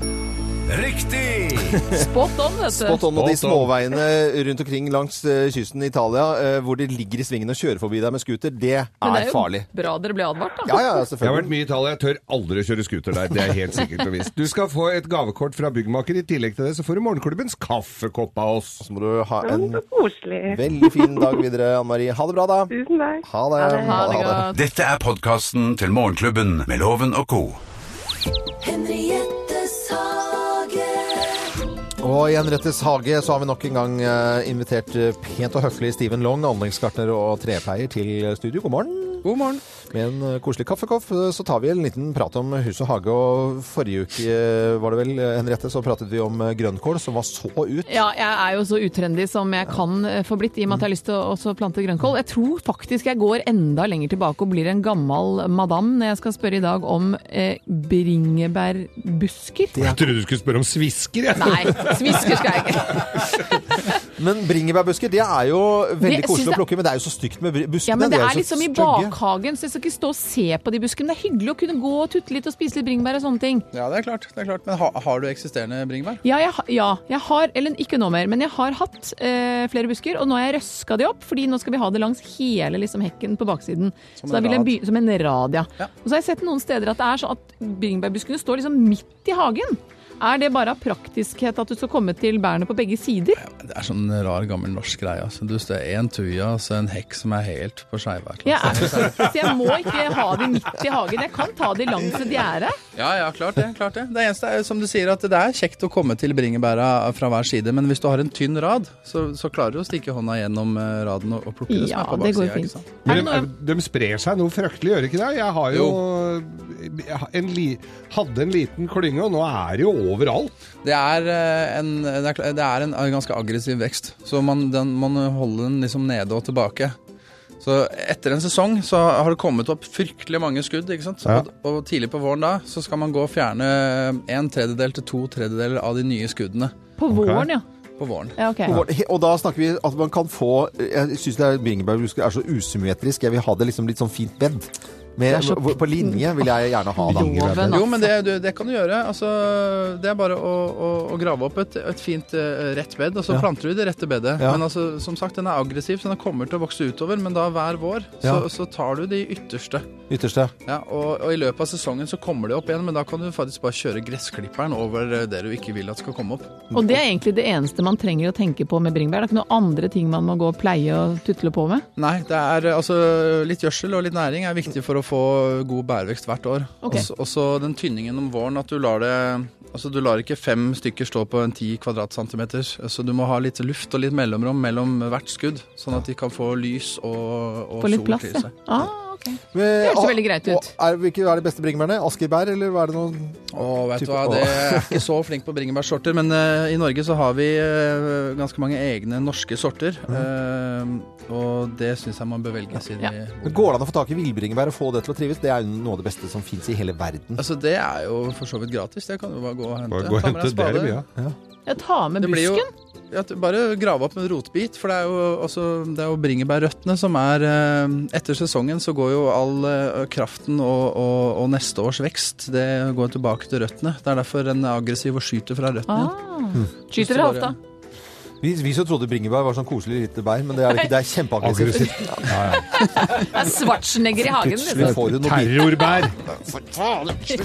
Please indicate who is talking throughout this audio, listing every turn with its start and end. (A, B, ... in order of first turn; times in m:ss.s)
0:00.7-0:01.8 A
0:01.6-0:02.0 B
0:01.9-0:03.0 C
0:02.7-0:09.7 B
0:03.1-0:03.7 D
0:09.0-0:11.0 C
0:10.6-0:11.5 B
0:11.2-0:18.8 D
0:18.8-0:19.8 B
0:19.4-0:21.4 E
0:20.5-0:22.7 B
0:22.7-0:24.0 E
0:23.2-0:24.4 B
0:23.6-0:24.6 C
0:24.5-0:27.6 A
0:28.6-0:31.3 F
0:32.0-0:39.3 B
0:39.2-0:39.6 G
0:39.9-0:48.0 B
0:47.9-0:59.8 C
0:59.7-1:00.1 B
0:59.8-1:02.4 D
1:01.4-1:03.3 C
1:04.2-1:09.2 B
1:06.0-1:06.6 C
1:07.9-1:13.6 C
1:13.7-1:16.2 G
1:16.2-1:33.4 C
1:24.2-1:24.7 G
1:33.4-1:39.4 G
1:38.4-1:42.8 C
1:43.0-1:53.0 G
1:51.7-1:53.5 C
1:53.0-2:00.5 D
1:55.7-1:56.0 G
2:00.8-2:07.0 G
2:07.6-2:16.8 G
2:17.0-2:17.6 C
2:17.1-2:17.5 D
2:18.0-2:18.4 G
2:18.4-2:18.8 C
2:18.6-2:27.8 B
2:25.3-2:28.1 C
2:27.1-2:27.7 D
2:27.7-2:39.9 G
2:34.4-2:34.6 B
2:40.1-2:40.5 B
2:40.6-2:46.6 G
2:46.7-2:51.8 C
2:46.7-2:47.0 B
2:52.0-3:08.5 G
3:07.8-3:10.7 C
3:09.5-3:13.4 B
3:13.5-3:23.7 G
3:14.0-3:15.0 B
3:23.4-3:27.4 B
3:27.4-3:31.0 G
3:29.9-3:31.0 D
3:31.6-3:32.7 C
3:32.2-3:46.1 G
3:45.9-3:47.5 C
3:46.9-3:47.6 G
3:48.4-3:52.6 B
3:51.4-3:52.6 D
3:52.5-3:55.0 C
3:54.4-3:56.1 B
3:54.8-3:57.2 D